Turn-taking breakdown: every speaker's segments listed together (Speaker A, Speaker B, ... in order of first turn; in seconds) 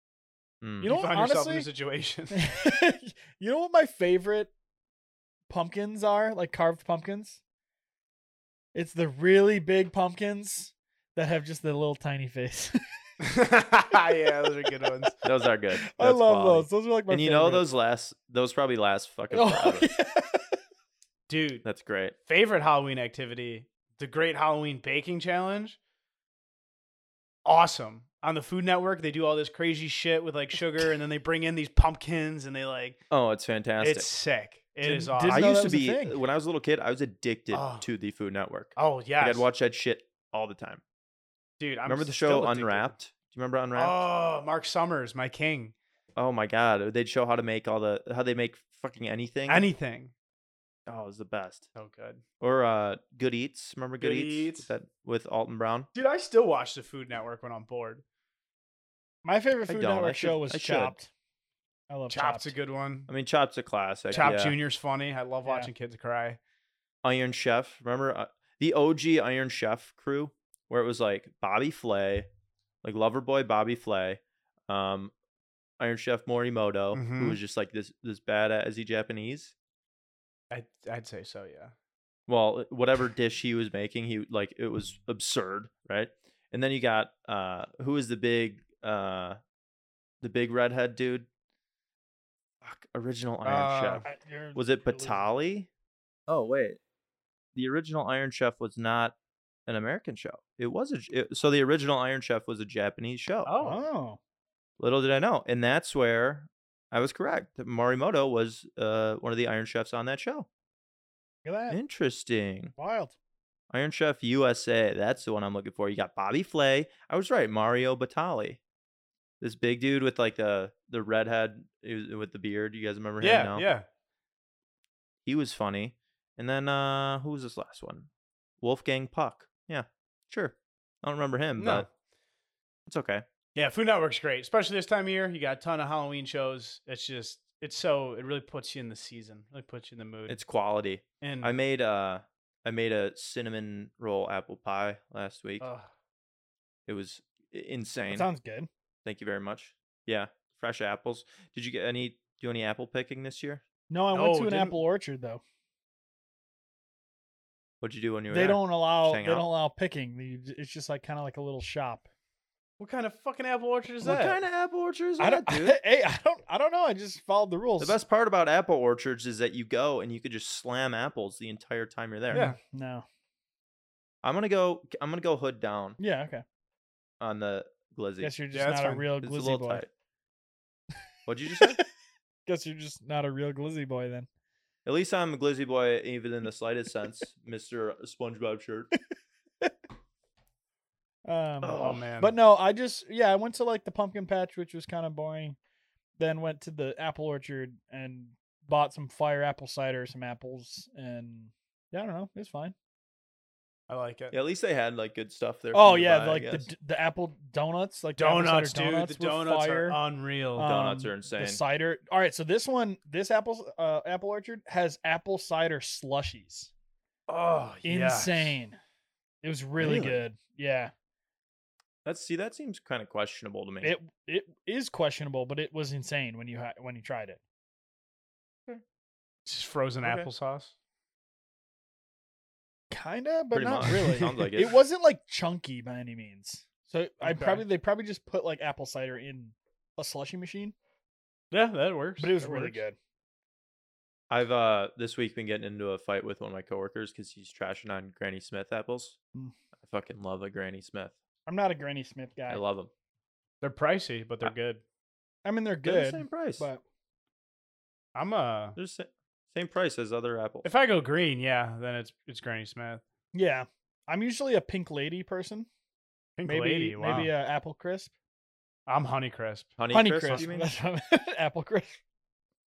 Speaker A: 0.6-0.9, 15.2-19.9, 21.6-22.1, 33.1-34.1, 35.3-40.8, 41.9-44.0, 46.1-49.6, 50.9-51.7, 52.4-55.9, 59.7-61.0, 63.1-64.5, 67.0-72.3, 72.8-75.1, 75.8-79.5, 82.3-89.4, 90.2-91.3, 92.6-95.7, 96.3-96.8, 97.5-99.1, 99.7-103.5, 104.8-110.5, 111.7-112.7, 113.7-118.6, 119.4-123.7, 125.2-128.1, 128.6-131.9, 132.9-133.2, 140.3-145.7, 146.9-148.3, 149.0-153.6, 157.8-159.4, 164.0-165.8, 167.8-172.5, 174.2-176.0, 177.2-178.3, 179.2-179.9, 181.2-181.8, 184.8-188.9, 191.6-192.0, 204.3-206.7, 210.6-211.6, 219.8-220.2, 222.0-223.9, 230.0-230.3, 233.5-234.8, 244.3-249.2, 249.8-251.1, 252.5-252.9, 255.8-256.7, 258.8-260.7, 269.8-270.7
Speaker B: 0.8-2.4, 13.2-15.1, 21.3-21.6, 22.2-25.8, 27.4-33.0, 33.8-35.7, 37.5-37.9, 38.8-39.5, 41.6-42.9, 43.7-45.7, 49.5-50.1, 51.7-52.2, 54.0-54.7, 55.9-58.0, 62.1-63.1, 64.1-66.4, 76.9-77.4, 80.5-81.7, 93.4-94.0, 103.4-103.8, 123.2-123.8, 131.6-131.9, 133.5-140.4, 141.2-141.6, 145.6-145.9, 154.1-154.8, 162.8-164.4, 172.3-172.6, 178.5-179.1, 191.8-192.3, 203.9-204.3, 208.2-210.7, 217.3-218.6, 229.4-230.7, 237.2-237.6, 241.5-242.8, 253.6-254.8, 258.1-258.8, 260.6-263.0, 266.4-267.3, 268.9-269.7, 270.2-270.5
Speaker C: 0.8-1.7, 2.3-4.5, 5.5-7.4, 8.7-12.8, 15.7-17.6, 19.3-20.6, 34.8-36.2, 59.2-61.1, 61.9-62.5, 65.4-65.7, 94.0-95.3, 103.6-104.2, 111.4-111.8, 112.8-113.1, 148.1-148.7, 153.9-155.4, 158.3-162.1, 165.2-168.0, 172.3-173.0, 176.0-176.4, 178.2-179.8, 182.4-184.3, 191.2-195.6, 196.2-202.7, 205.7-210.0, 210.6-216.7, 217.8-218.8, 219.4-220.9, 223.8-227.4, 232.9-240.7, 242.2-242.9, 251.4-252.6, 255.4-256.8, 263.3-265.7, 266.4-268.1, 269.9-272.0